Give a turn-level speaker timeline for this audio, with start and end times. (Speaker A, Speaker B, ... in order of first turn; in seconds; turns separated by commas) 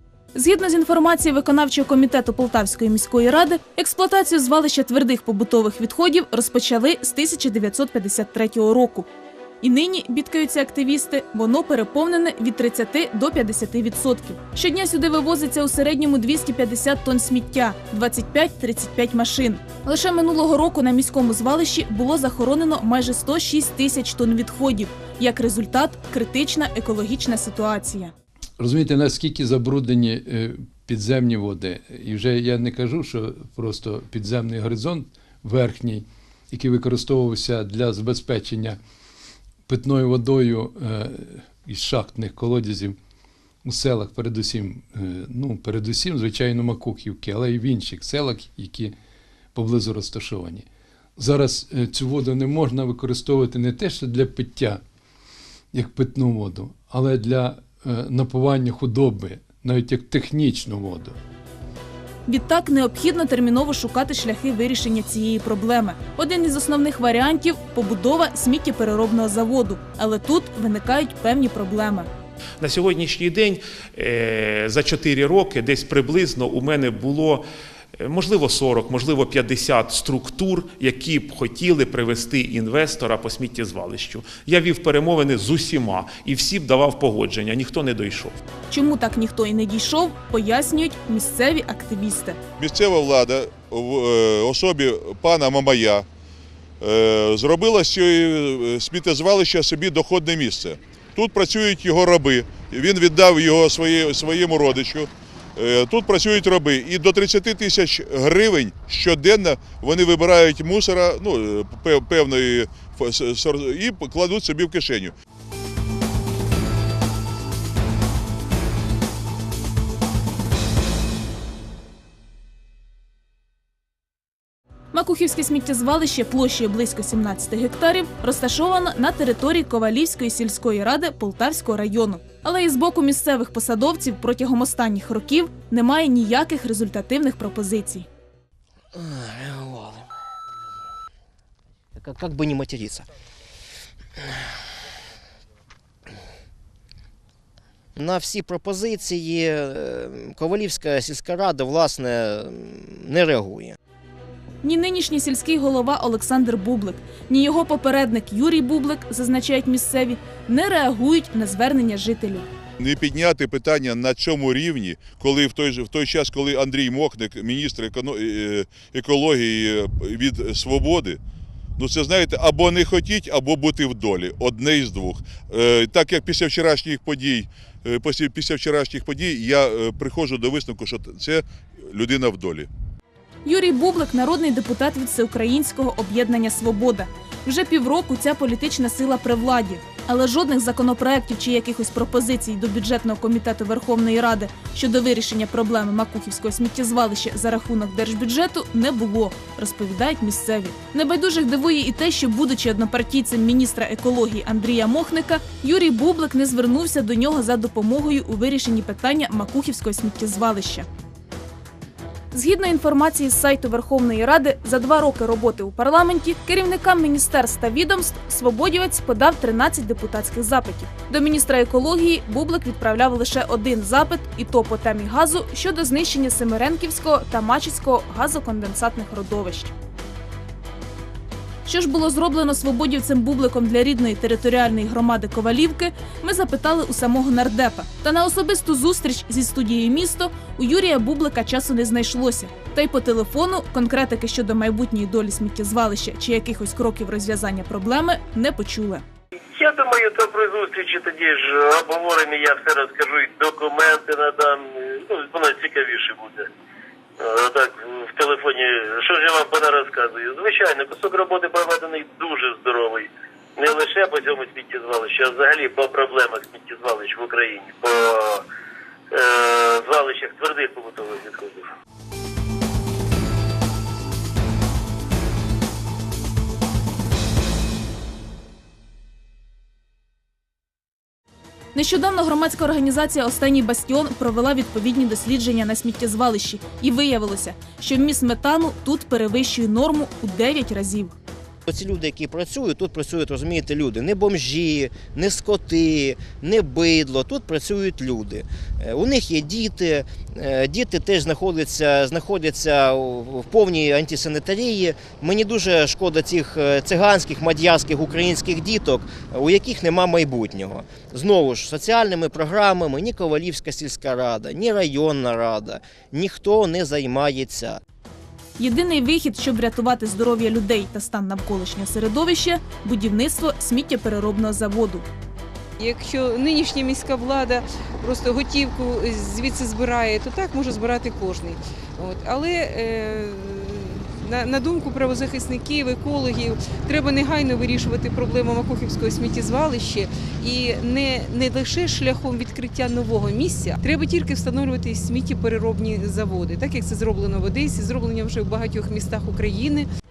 Speaker A: 0.3-9.1, Speaker A: 9.6-28.1, Speaker B: 28.6-38.8, Speaker B: 39.7-43.0, Speaker B: 43.6-48.9, Speaker B: 49.5-50.6, Speaker B: 51.2-54.8, Speaker B: 55.7-61.1, Speaker A: 62.3-72.1, Speaker C: 72.6-88.4, Speaker A: 88.7-92.4, Speaker D: 92.6-96.0, Speaker D: 96.8-115.1, Speaker A: 124.9-138.1, Speaker E: 138.9-140.1, Speaker E: 141.9-143.1, Speaker E: 147.9-153.8, Speaker A: 154.6-162.5, Speaker D: 162.8-171.2, Speaker D: 171.8-182.7, Speaker A: 183.4-210.9, Speaker A: 212.3-229.7, Speaker A: 231.7-249.0, Speaker F: 249.5-256.5, Speaker F: 257.2-268.4, Speaker F: 269.1-271.7, Speaker A: 281.7-291.1, Speaker E: 291.7-317.8, Speaker A: 318.6-325.1, Speaker G: 325.8-349.9